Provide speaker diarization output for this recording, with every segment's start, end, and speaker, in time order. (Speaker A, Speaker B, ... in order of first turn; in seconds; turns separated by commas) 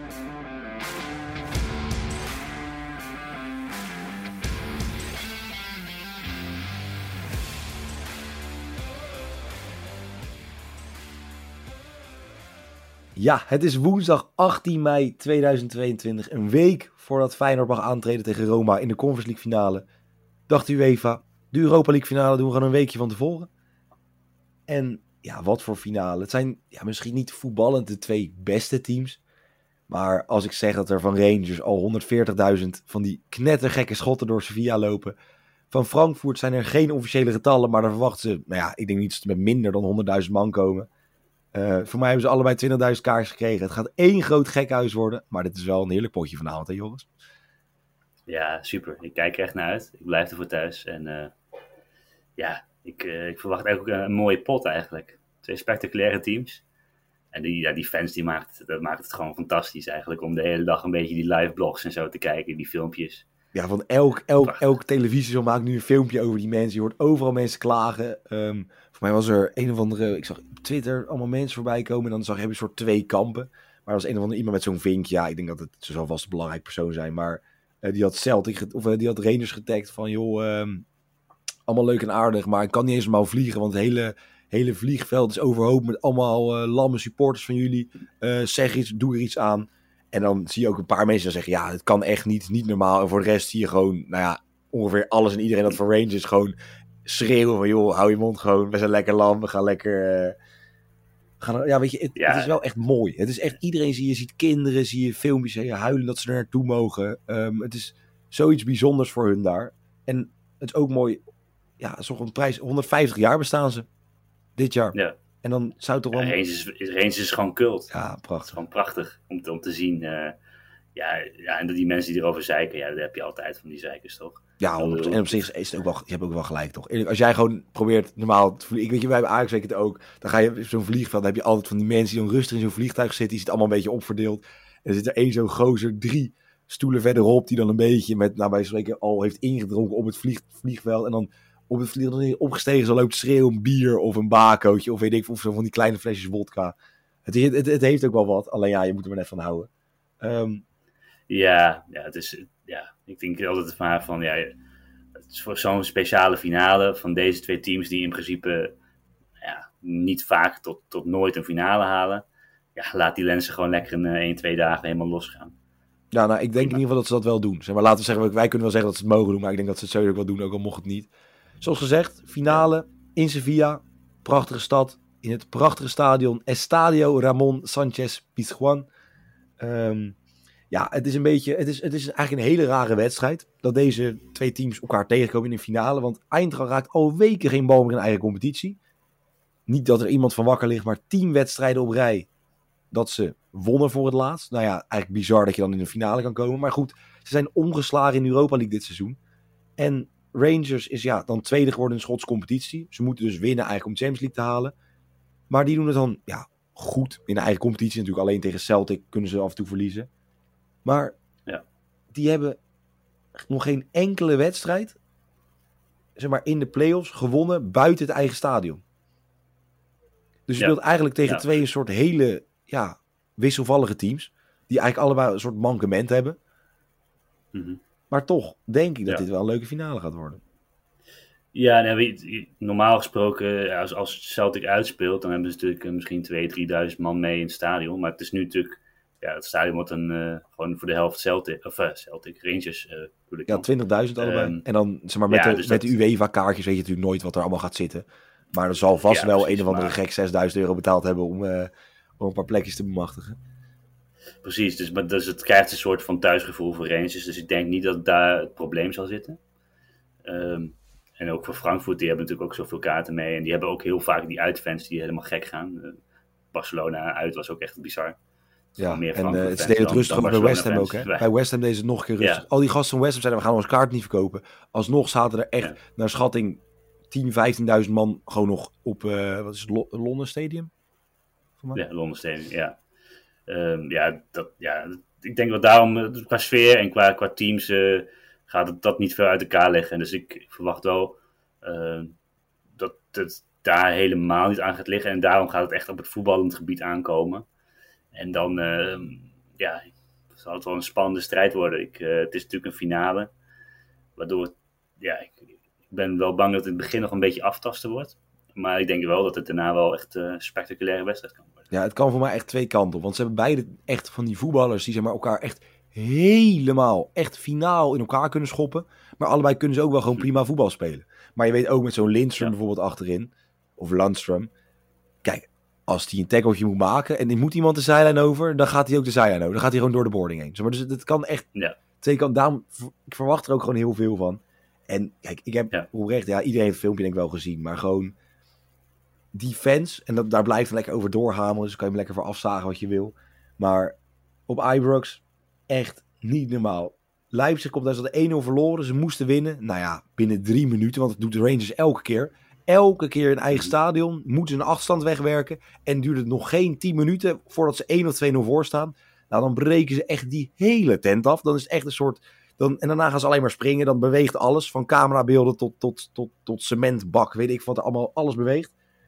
Speaker A: 13.2-19.9, Speaker A: 20.5-23.5, Speaker A: 24.7-29.2, Speaker A: 29.9-35.1, Speaker A: 35.7-40.9, Speaker A: 41.5-47.1, Speaker B: 48.3-51.3, Speaker B: 52.4-56.6, Speaker B: 57.3-63.2, Speaker A: 63.5-80.8, Speaker B: 64.4-64.7, Speaker A: 81.7-100.3, Speaker A: 101.4-111.2, Speaker B: 102.2-102.5, Speaker A: 111.8-113.9, Speaker A: 114.6-116.4, Speaker B: 116.1-117.9, Speaker A: 117.9-118.6, Speaker B: 118.4-120.3, Speaker B: 120.9-125.5, Speaker A: 124.6-149.7, Speaker A: 150.2-150.6, Speaker B: 151.3-154.5, Speaker B: 155.2-158.7, Speaker B: 159.4-165.5, Speaker A: 166.1-171.1, Speaker A: 171.6-178.9, Speaker A: 179.6-180.2, Speaker A: 180.7-188.8, Speaker A: 189.7-192.3, Speaker A: 192.9-199.2, Speaker A: 199.8-204.7, Speaker A: 205.5-210.1, Speaker A: 210.8-211.2, Speaker A: 212.1-212.6, Speaker A: 213.4-215.0, Speaker A: 216.2-218.8, Speaker A: 220.5-226.4, Speaker B: 220.6-221.5, Speaker B: 227.5-227.8, Speaker A: 228.1-230.4, Speaker B: 231.5-244.6, Speaker A: 243.5-253.4, Speaker B: 245.3-246.0, Speaker B: 249.1-250.0, Speaker B: 254.4-259.4, Speaker B: 260.2-266.0, Speaker B: 266.5-268.1, Speaker A: 268.8-280.7, Speaker B: 268.8-271.3, Speaker B: 272.2-272.4, Speaker B: 281.7-282.8, Speaker B: 283.5-292.1, Speaker B: 292.8-297.4, Speaker B: 298.1-303.3, Speaker B: 304.1-311.6, Speaker A: 311.7-324.5, Speaker A: 325.2-331.5, Speaker A: 332.0-338.1, Speaker A: 339.3-344.0, Speaker A: 344.5-368.7